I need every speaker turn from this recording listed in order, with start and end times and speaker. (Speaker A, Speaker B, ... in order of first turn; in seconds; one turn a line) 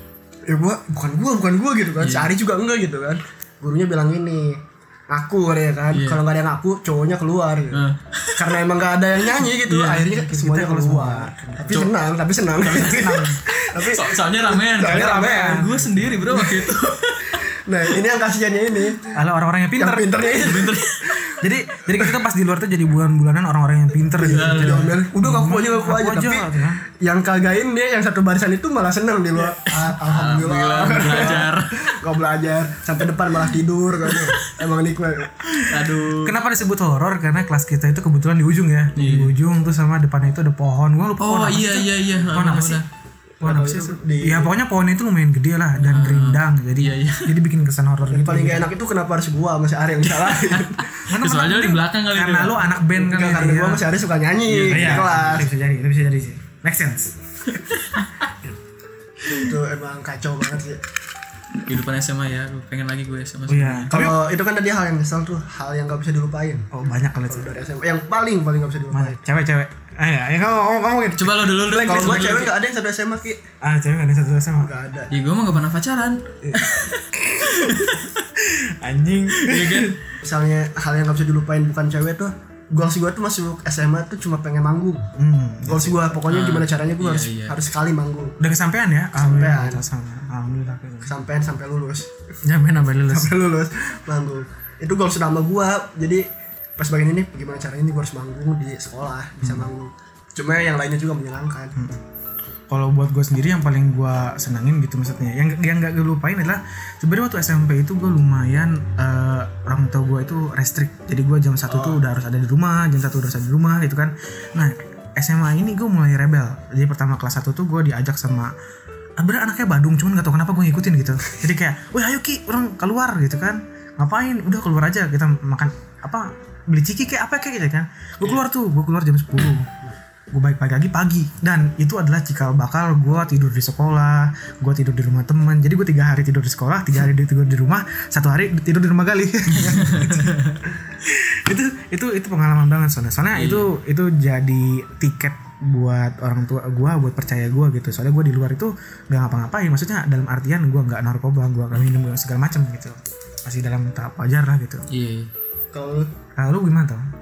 Speaker A: 0.5-7.8
Speaker B: 2.0-2.3
Speaker B: 5.9-6.2
Speaker B: 7.7-8.6
Speaker A: 8.3-15.7
Speaker B: 9.4-10.1
Speaker C: 9.9-11.9
Speaker C: 12.6-13.5
Speaker B: 13.7-17.4
Speaker C: 14.8-16.3
Speaker A: 16.3-16.8
Speaker A: 17.4-19.1
Speaker C: 19.1-20.2
Speaker A: 19.8-22.1
Speaker B: 20.3-21.2
Speaker C: 21.4-26.8
Speaker A: 24.2-35.7
Speaker B: 24.2-24.9
Speaker B: 29.6-31.9
Speaker B: 34.0-34.6
Speaker B: 35.4-36.4
Speaker C: 36.1-42.8
Speaker B: 38.9-39.4
Speaker B: 41.2-42.9
Speaker A: 43.4-44.5
Speaker C: 43.4-48.7
Speaker B: 45.8-47.3
Speaker A: 48.1-50.9
Speaker B: 50.1-52.8
Speaker C: 51.1-53.9
Speaker A: 52.9-55.5
Speaker B: 54.5-55.3
Speaker C: 54.7-57.1
Speaker B: 57.5-58.3
Speaker A: 59.2-60.8
Speaker B: 61.6-63.9
Speaker C: 63.5-64.2
Speaker A: 63.9-66.7
Speaker C: 66.7-67.5
Speaker A: 67.3-69.2
Speaker C: 68.9-71.3
Speaker B: 71.2-72.5
Speaker A: 71.5-73.4
Speaker C: 73.6-74.7
Speaker A: 74.6-75.1
Speaker B: 75.1-78.2
Speaker C: 77.3-80.0
Speaker B: 79.3-80.0
Speaker A: 80.2-85.1
Speaker C: 85.2-86.1
Speaker A: 85.6-88.4
Speaker B: 86.3-87.6
Speaker C: 88.4-91.1
Speaker A: 89.2-89.8
Speaker A: 91.0-92.1
Speaker C: 92.4-93.3
Speaker A: 93.1-96.3
Speaker A: 96.8-101.8
Speaker C: 99.4-99.7
Speaker C: 101.8-102.0
Speaker C: 102.7-118.5
Speaker A: 111.7-112.0
Speaker C: 119.2-129.7
Speaker C: 130.3-140.4
Speaker B: 139.5-140.6
Speaker C: 141.0-154.8
Speaker B: 143.3-143.7
Speaker B: 154.9-155.3
Speaker A: 155.7-156.1
Speaker C: 156.3-157.1